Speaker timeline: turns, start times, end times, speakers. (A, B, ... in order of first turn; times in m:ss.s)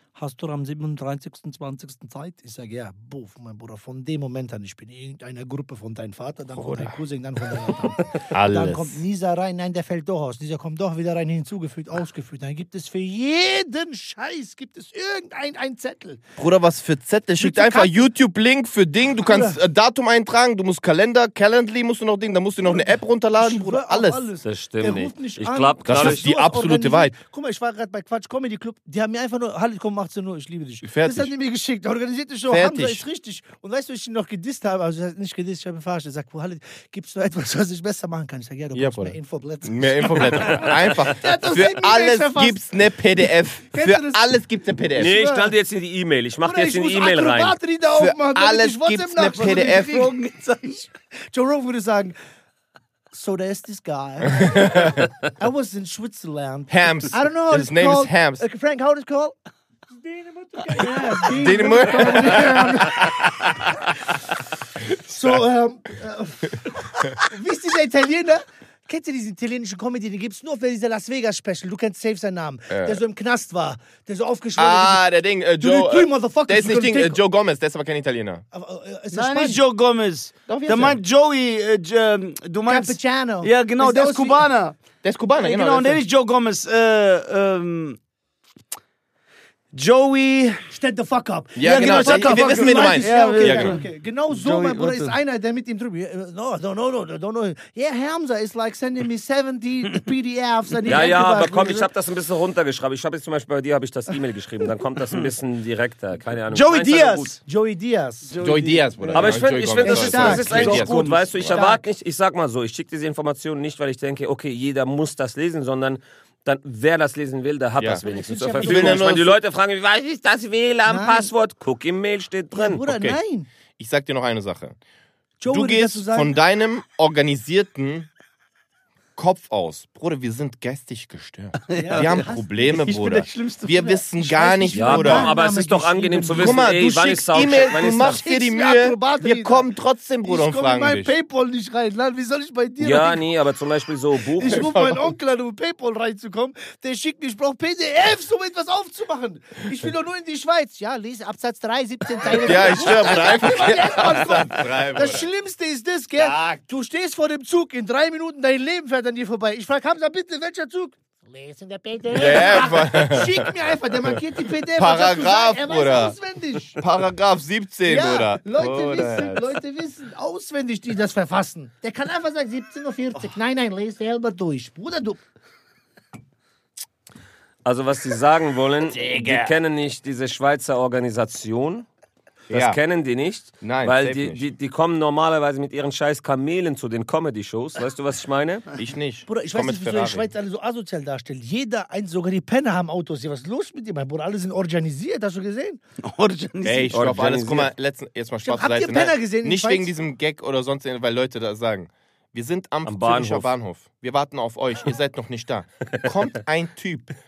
0:00.2-0:16.2 A
0:06.6-0:07.0 B
0:08.3-0:09.0 B
0:16.4-0:24.3 B
0:17.4-0:18.1 A
0:19.2-0:19.6 A
0:22.7-0:42.6 A
0:24.4-0:26.2 C
0:25.8-0:27.1 B
0:30.8-0:31.3 B
0:32.5-0:33.0 B
0:38.7-0:45.2 B
0:43.7-0:44.3 A
0:45.0-0:45.5 A
0:45.0-0:47.6 C
0:46.4-0:50.2 A
0:48.0-0:50.1 B
0:49.2-0:50.9 D
0:51.3-0:52.2 A
0:53.1-0:59.4 A
0:54.5-0:54.9 B
0:56.7-0:58.4 B
0:59.9-1:03.2 A
1:01.2-1:03.3 B
1:05.0-1:17.2 A
1:12.7-1:13.0 B
1:14.6-1:18.4 B
1:18.5-1:19.6 A
1:19.1-1:24.8 D
1:20.5-1:21.0 B
1:22.7-1:24.5 A
1:25.0-1:26.0 B
1:25.4-1:28.0 D
1:29.7-1:30.7 D
1:30.7-1:41.9 A
1:31.6-1:33.8 B
1:31.6-1:35.2 D
1:40.9-1:47.4 C
1:46.5-1:47.4 D
1:47.4-1:48.3 A
1:48.3-1:51.6 D
1:48.4-1:51.6 B
1:49.1-2:02.8 C
1:49.8-1:50.8 A
1:51.5-1:51.8 A
1:58.0-1:59.2 A
1:58.6-1:59.4 B
2:00.9-2:01.3 A
2:02.5-2:03.5 A
2:02.8-2:03.2 B
2:03.8-2:04.8 B
2:05.4-2:06.4 A
2:05.5-2:08.1 B
2:09.2-2:15.4 B
2:11.6-2:14.0 D
2:11.7-2:12.5 A
2:14.1-2:16.7 A
2:14.7-2:18.2 C
2:16.3-2:21.1 B
2:17.3-2:19.7 A
2:20.2-2:23.2 A
2:22.8-2:24.7 C
2:24.4-2:46.8 A
2:24.5-2:25.1 B
2:32.2-2:35.3 B
2:36.2-2:36.6 B
2:42.1-2:43.5 B
2:44.8-2:46.2 B
2:46.8-2:49.4 B
2:47.9-2:55.2 A
2:48.7-2:49.3 C
2:57.6-3:01.9 C
2:58.9-2:59.5 B
3:02.5-3:02.8 B
3:02.5-3:08.7 C
3:03.6-3:04.5 B
3:08.8-3:10.3 B
3:09.3-3:15.8 A
3:16.0-3:17.0 D
3:16.6-3:27.1 B
3:16.9-3:17.7 C
3:18.4-3:19.9 A
3:22.8-3:23.5 C